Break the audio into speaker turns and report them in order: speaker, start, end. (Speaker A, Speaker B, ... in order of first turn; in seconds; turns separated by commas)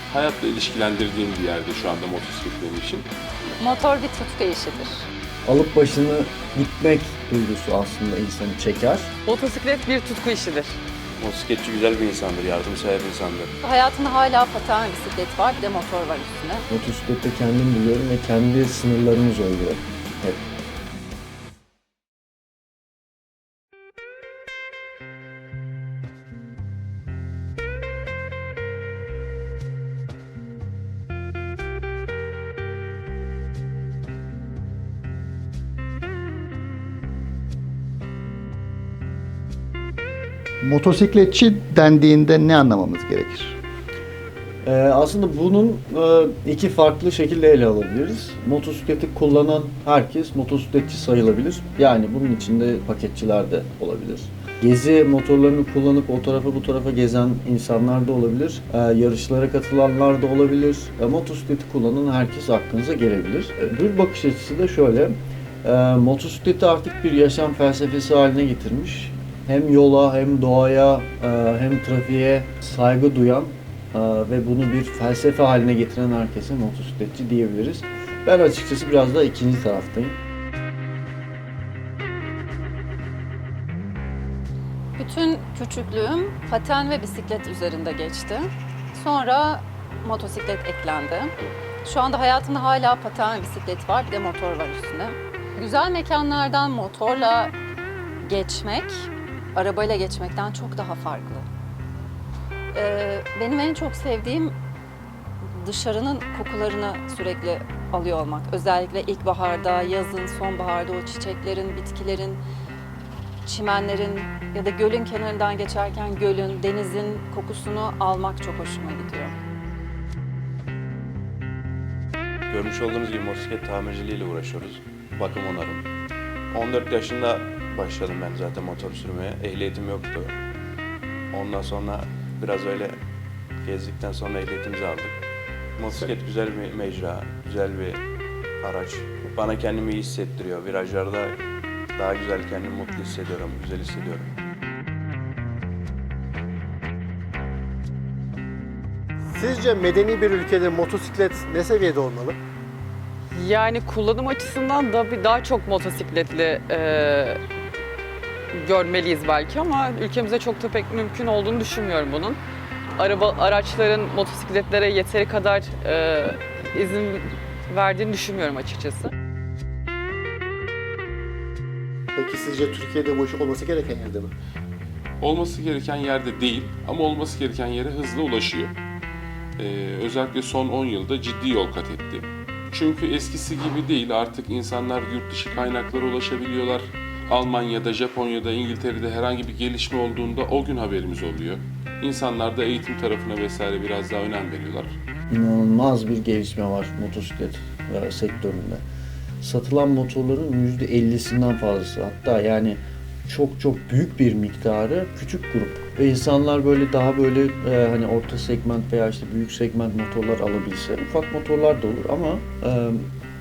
Speaker A: 0.1-3.1, Speaker B: 3.6-5.0, Speaker C: 5.5-9.1, Speaker D: 9.2-10.8, Speaker E: 11.2-13.5, Speaker B: 13.6-16.7, Speaker C: 16.7-20.4, Speaker F: 40.6-43.6, Speaker C: 44.6-80.2, Speaker B: 85.0-91.3, Speaker B: 91.8-97.5, Speaker B: 98.2-101.5, Speaker B: 102.7-104.5, Speaker B: 105.5-112.4, Speaker B: 113.5-119.3, Speaker E: 122.5-125.8, Speaker E: 126.5-130.3, Speaker E: 131.3-133.0, Speaker E: 133.6-135.2, Speaker E: 135.8-138.0, Speaker E: 138.6-141.4, Speaker E: 141.9-144.3, Speaker G: 149.3-152.4, Speaker D: 153.3-157.4, Speaker D: 158.5-162.4, Speaker D: 163.0-169.1, Speaker G: 172.1-174.3, Speaker A: 175.2-178.7, Speaker A: 179.6-194.9, Speaker C: 195.3-198.8, Speaker C: 199.4-213.1